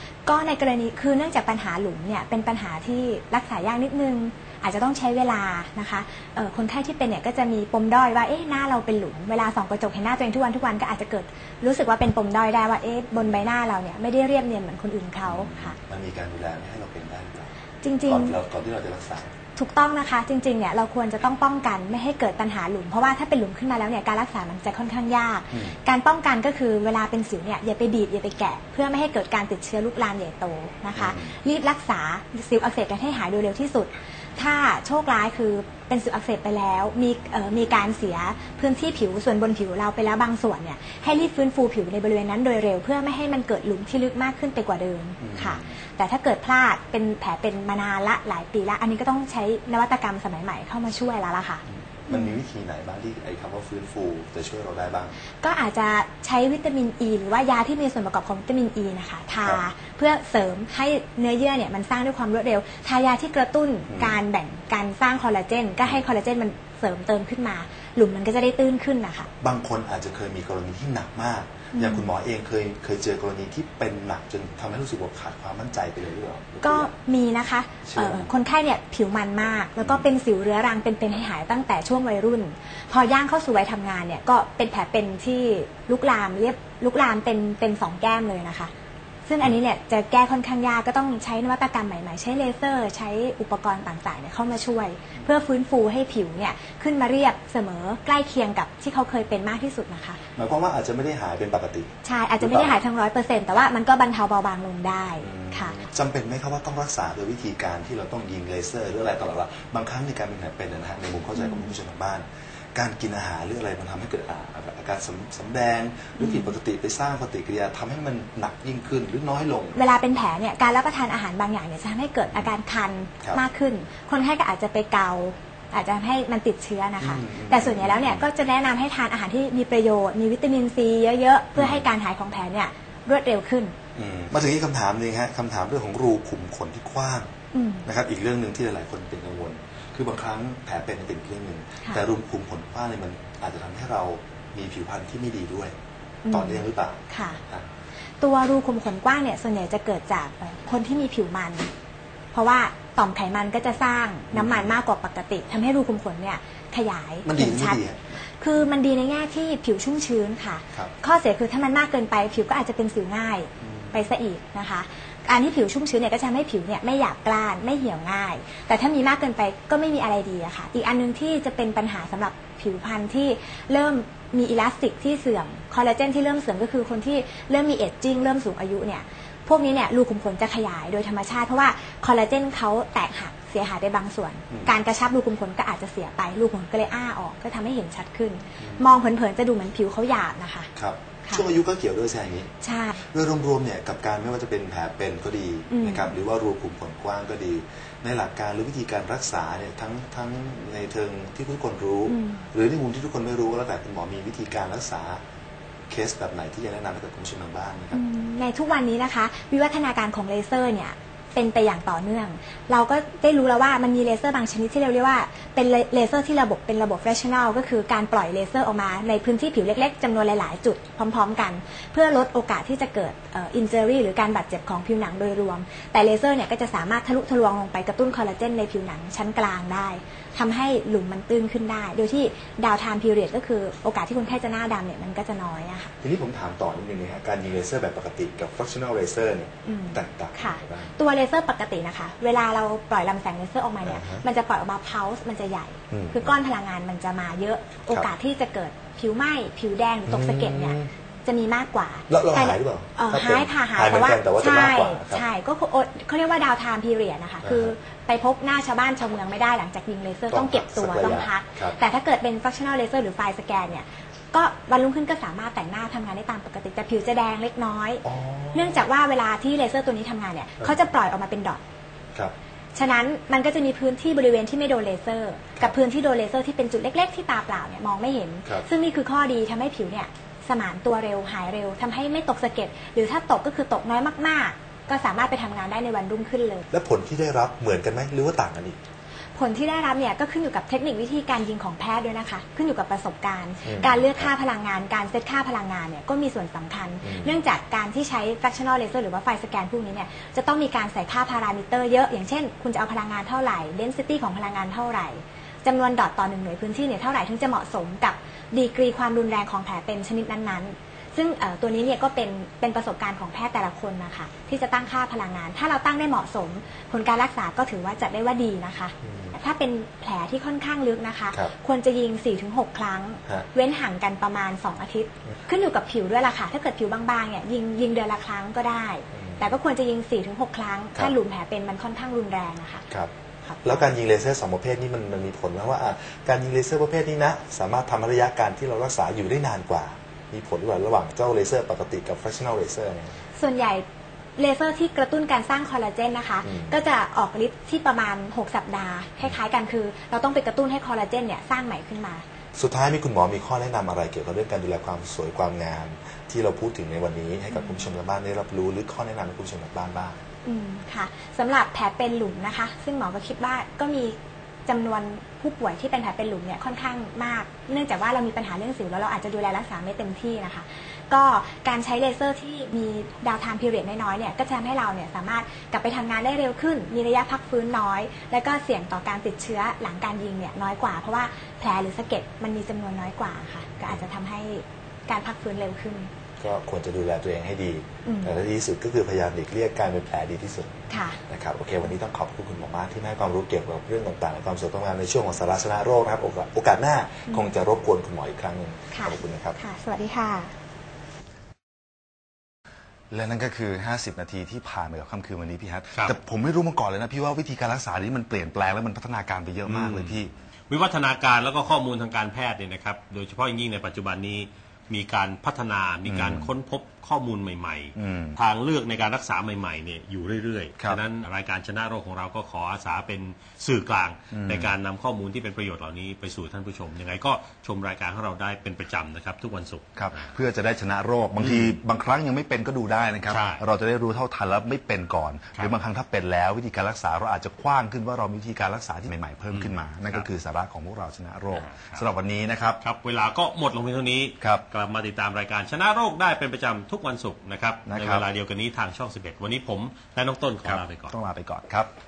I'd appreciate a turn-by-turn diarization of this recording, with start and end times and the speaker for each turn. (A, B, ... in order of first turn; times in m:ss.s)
0:00.2-0:15.8 A
0:15.2-0:17.5 B
0:17.8-0:18.4 A
0:18.0-0:19.3 B
0:19.6-0:52.3 A
0:25.5-0:25.8 B
0:30.9-0:31.3 B
0:45.2-0:45.8 B
0:51.7-0:55.1 B
0:55.4-1:09.3 A
1:03.9-1:04.2 B
1:09.4-1:16.9 B
1:11.7-1:12.1 A
1:16.6-1:28.7 A
1:17.8-1:18.3 B
1:19.8-1:20.0 B
1:29.3-1:40.2 A
1:40.4-1:42.8 B
1:42.0-1:45.8 A
1:45.2-1:59.8 B
1:51.3-1:51.7 A
1:56.2-1:56.5 A
1:59.7-2:13.7 A
2:07.0-2:08.2 B
2:11.6-2:11.9 B
2:13.9-2:17.3 B
2:17.5-2:17.8 A
2:17.8-2:25.7 B
2:26.2-2:27.4 A
2:26.3-2:27.6 B
2:28.2-2:31.7 A
2:32.3-3:10.7 A
2:34.3-2:34.8 B
2:37.2-2:38.2 B
2:43.6-2:44.1 B
3:04.5-3:04.7 B
3:08.6-3:08.9 B
3:10.8-3:25.2 B
3:12.6-3:13.0 A
3:15.7-3:16.1 A
3:22.1-3:22.5 A
3:25.9-3:28.0 B
3:27.9-3:55.9 A
3:56.0-4:01.0 B
3:59.6-4:31.6 A
4:03.8-4:04.2 B
4:05.9-4:06.3 B
4:10.1-4:10.9 B
4:12.1-4:15.2 B
4:17.4-4:17.7 B
4:20.3-4:21.8 B
4:28.0-4:28.9 B
4:32.7-4:46.7 A
4:46.7-4:48.8 B
4:49.3-5:32.9 A
4:53.6-4:54.3 B
4:57.0-4:57.4 B
5:19.0-5:19.3 B
5:29.1-5:29.5 B
5:33.4-5:33.9 A
5:33.6-5:43.2 B
5:43.4-5:43.8 A
5:44.4-5:52.2 A
5:46.4-5:46.7 B
5:52.6-6:00.2 B
5:57.5-5:57.8 A
6:00.4-6:26.1 A
6:26.4-6:39.6 B
6:28.0-6:28.3 A
6:30.9-6:31.2 A
6:38.9-6:40.5 A
6:43.1-6:50.3 B
6:49.6-7:10.3 C
6:56.0-6:56.5 B
6:58.0-6:58.4 B
7:04.3-7:04.7 B
7:10.0-7:22.8 B
7:11.4-7:11.7 C
7:13.3-7:13.6 C
7:19.5-7:20.3 C
7:21.5-7:22.0 C
7:22.8-7:31.1 C
7:24.4-7:24.6 B
7:27.9-7:28.2 B
7:30.6-7:31.9 B